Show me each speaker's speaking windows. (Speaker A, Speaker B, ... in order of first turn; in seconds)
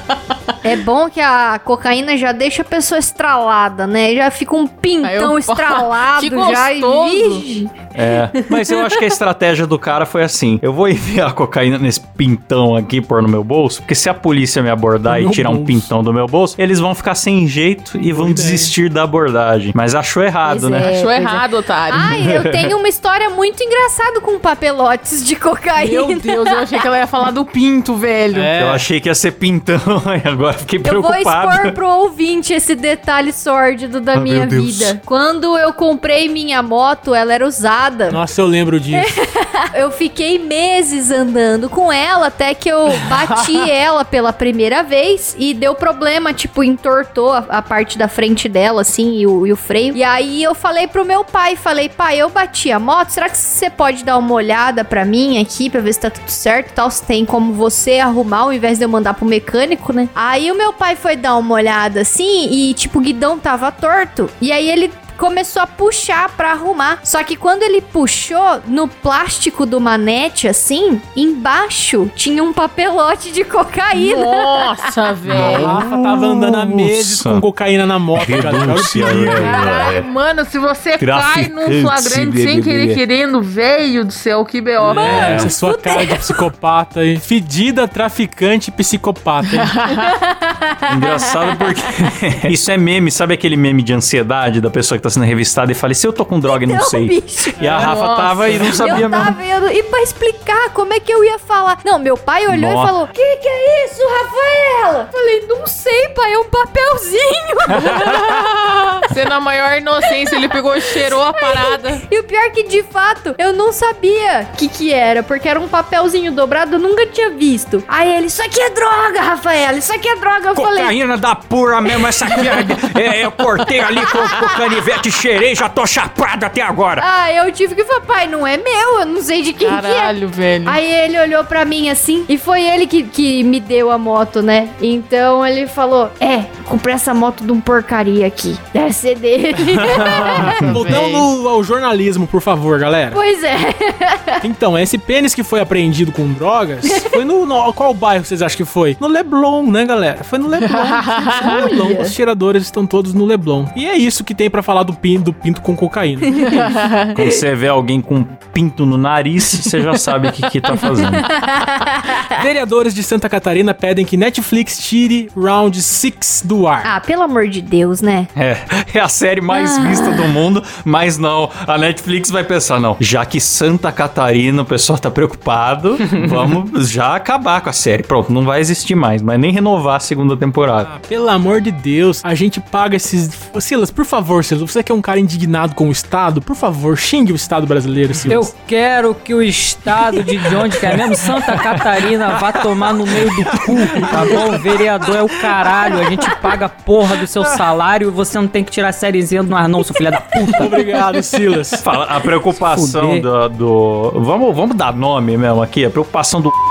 Speaker A: 0.6-8.8, 20.4-26.7, 30.8-38.2, 38.9-74.6, 85.0-86.4, 90.1-91.0, 96.4-97.7, 98.6-109.0, 110.9-120.9, 122.0-122.7, 127.0-130.1, 130.6-140.6, 143.1-144.4, 151.3-152.1, 161.3-162.4, 166.8-168.3, 169.5-170.3
Speaker B: 5.0-7.4, 20.8-22.1, 25.8-28.5, 73.9-75.8, 79.4-85.5, 89.5-90.1, 97.6-98.8, 109.1-112.0, 129.6-130.8, 140.0-141.3, 150.6-151.7, 156.5-157.1
Speaker C: 7.9-20.9, 22.0-22.7, 28.5-31.8, 34.1-34.9, 75.3-77.4, 78.2-80.1, 81.0-83.0, 84.9-85.5, 90.9-99.3, 102.5-103.0, 120.5-127.1, 139.9-140.9, 157.1-161.3, 168.3-180.9, 193.7-194.6, 201.8-206.5
Speaker D: 15.1-15.9, 18.1-18.7, 28.3-28.8, 38.1-39.1, 75.5-79.6, 84.8-89.7, 140.4-143.2, 144.4-156.4, 162.3-166.9, 180.7-188.5, 200.5-201.8
Speaker E: 188.3-200.8, 202.5-203.2